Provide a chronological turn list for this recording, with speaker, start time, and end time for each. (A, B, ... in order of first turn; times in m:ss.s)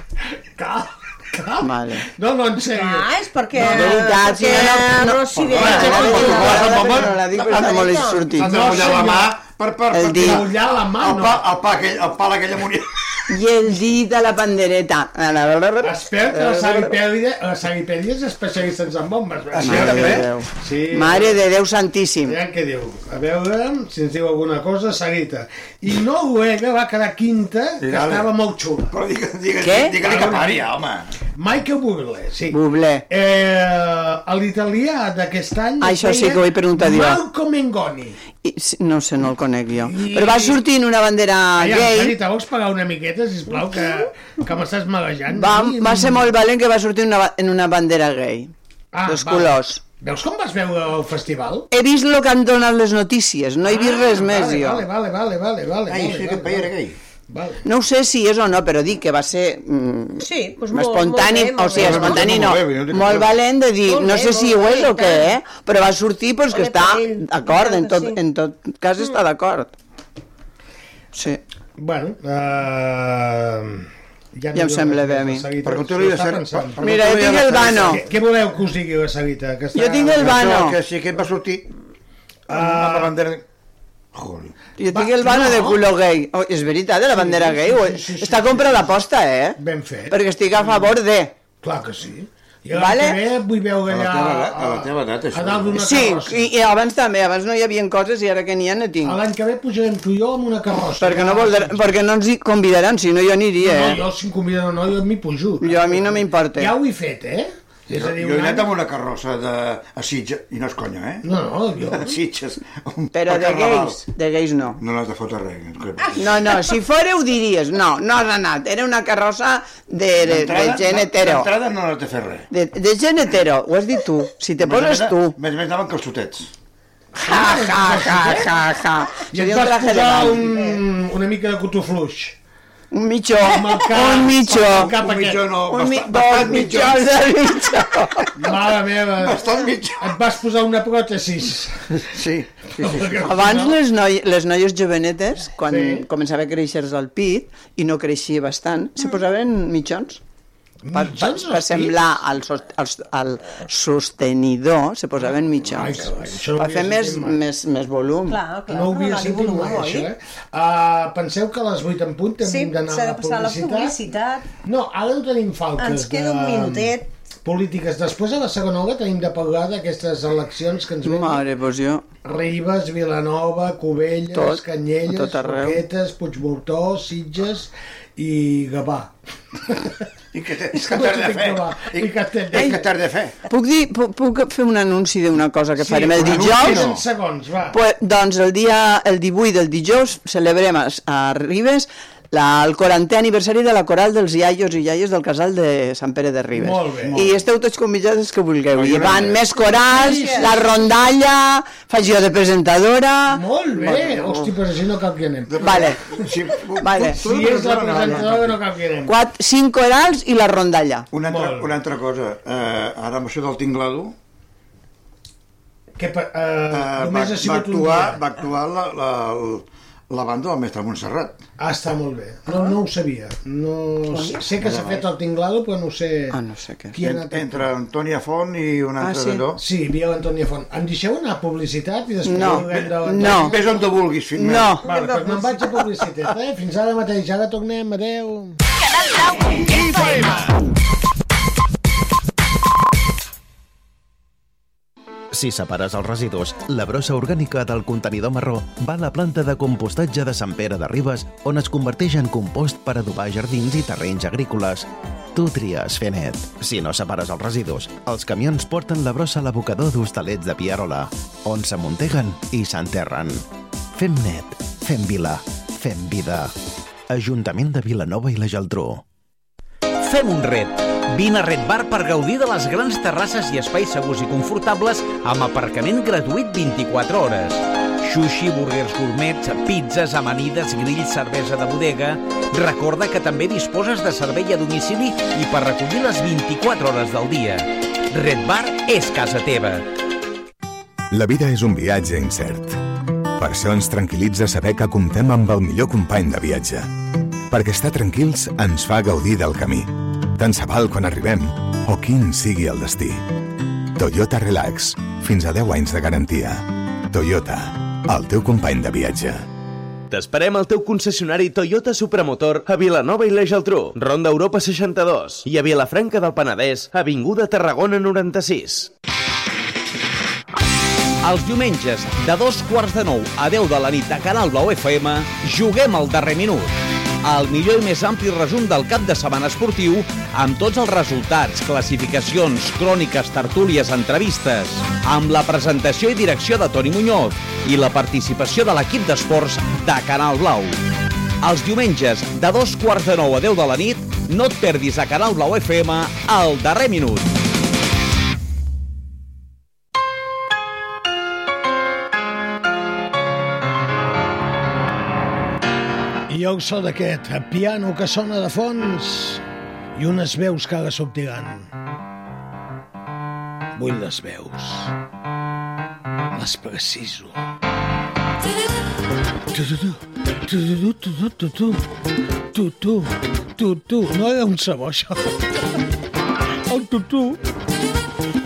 0:00.6-0:03.1 A
0:01.6-0:02.0 B
0:02.7-0:08.4 C
0:03.6-0:08.8 B
0:03.8-0:04.0 A
0:05.4-0:12.9 D
0:08.4-0:09.4 A
0:09.9-0:10.4 B
0:10.1-0:11.4 A
0:13.3-0:16.9 B
0:15.8-0:21.4 A
0:19.5-0:20.3 D
0:19.6-0:22.4 B
0:22.2-0:28.9 A
0:27.8-0:28.3 D
0:28.9-0:31.1 D
0:29.6-0:30.0 B
0:30.0-0:30.6 A
0:31.3-0:38.2 A
0:32.5-0:33.0 B
0:35.8-0:37.2 B
0:38.4-0:42.2 B
0:39.8-0:40.6 A
0:41.6-0:46.3 A
0:45.3-0:48.5 B
0:48.9-0:51.7 A
0:49.1-0:49.8 B
0:51.7-0:54.8 B
0:53.6-0:56.7 A
0:55.9-0:57.0 D
0:57.3-0:57.6 A
0:57.6-1:09.7 B
1:00.2-1:02.4 C
1:01.7-1:03.4 D
1:03.8-1:05.4 C
1:06.5-1:08.2 C
1:11.1-1:11.4 B
1:11.8-1:16.8 A
1:14.5-1:15.5 B
1:15.6-1:18.0 D
1:16.8-1:18.0 B
1:17.6-1:20.4 A
1:19.7-1:20.8 B
1:20.1-1:21.7 D
1:22.5-1:23.4 D
1:22.5-1:23.1 A
1:24.1-1:24.5 D
1:24.8-1:29.6 B
1:24.9-1:25.8 A
1:27.1-1:29.0 A
1:29.6-1:30.9 A
1:30.1-1:31.3 B
1:31.6-1:36.5 A
1:32.7-1:33.2 B
1:33.9-1:35.8 D
1:35.7-1:39.2 B
1:39.0-1:41.9 A
1:41.0-1:44.0 B
1:43.6-1:48.7 A
1:45.6-1:46.7 B
1:47.9-1:51.3 D
1:51.2-1:52.2 A
1:51.8-1:54.0 D
1:53.1-1:54.8 B
1:54.8-1:56.6 D
1:56.2-2:01.5 B
2:00.2-2:02.5 D
2:02.5-2:05.4 B
2:04.6-2:06.5 D
2:07.2-2:08.5 A
2:07.2-2:10.7 B
2:09.3-2:12.4 A
2:12.9-2:15.0 B
2:13.4-2:15.5 A
2:14.6-2:17.1 D
2:15.7-2:18.3 B
2:18.4-2:22.0 A
2:19.2-2:20.1 D
2:22.0-2:23.2 D
2:22.8-2:23.8 A
2:23.2-2:30.2 B
2:25.6-2:26.0 A
2:30.8-2:32.2 A
2:30.9-2:38.4 B
2:35.6-2:37.4 A
2:38.3-2:40.1 C
2:38.7-2:44.0 A
2:42.4-2:44.5 C
2:44.6-2:51.4 A
2:45.8-2:47.0 C
2:51.0-2:52.0 B
2:52.2-2:59.1 A
2:54.3-2:55.8 B
2:59.6-3:00.0 A
3:00.3-3:03.4 D
3:00.7-3:02.8 A
3:03.5-3:06.9 B
3:05.8-3:07.8 A
3:06.1-3:07.0 D
3:07.7-3:24.4 B
3:16.6-3:17.3 A
3:18.7-3:19.6 D
3:19.6-3:20.5 C
3:19.7-3:20.7 A
3:23.3-3:25.9 A
3:25.5-3:28.6 D
3:25.6-3:26.0 B
3:26.8-3:27.2 B
3:27.0-3:29.2 A
3:29.0-3:31.1 B
3:31.1-3:34.1 D
3:31.2-3:31.8 A
3:36.0-3:38.2 A
3:36.7-3:41.4 D
3:41.6-3:46.4 A
3:44.6-3:45.1 D
3:46.3-3:47.0 B
3:46.9-3:47.7 A
3:47.0-3:49.6 D
3:49.0-3:49.4 B
3:49.6-3:53.6 A
3:52.2-3:53.6 B
3:52.4-3:54.8 D
3:54.3-3:54.8 B
3:54.8-3:55.8 C
3:54.8-3:58.6 A
4:05.3-4:26.5 E
4:27.1-4:29.0 E
4:30.0-4:49.8 F
4:51.1-4:52.8 G
4:53.4-4:56.9 G
4:57.5-5:03.2 G
5:04.0-5:09.4 G
5:10.1-5:18.9 H
5:21.2-5:40.8 F
5:41.4-5:47.3 F
5:56.3-5:59.4 A
5:59.9-6:01.7 A
6:03.8-6:04.9 A
6:06.3-6:07.4 A
6:09.5-6:11.9 A
6:12.5-6:15.6 A
6:16.7-6:17.4 A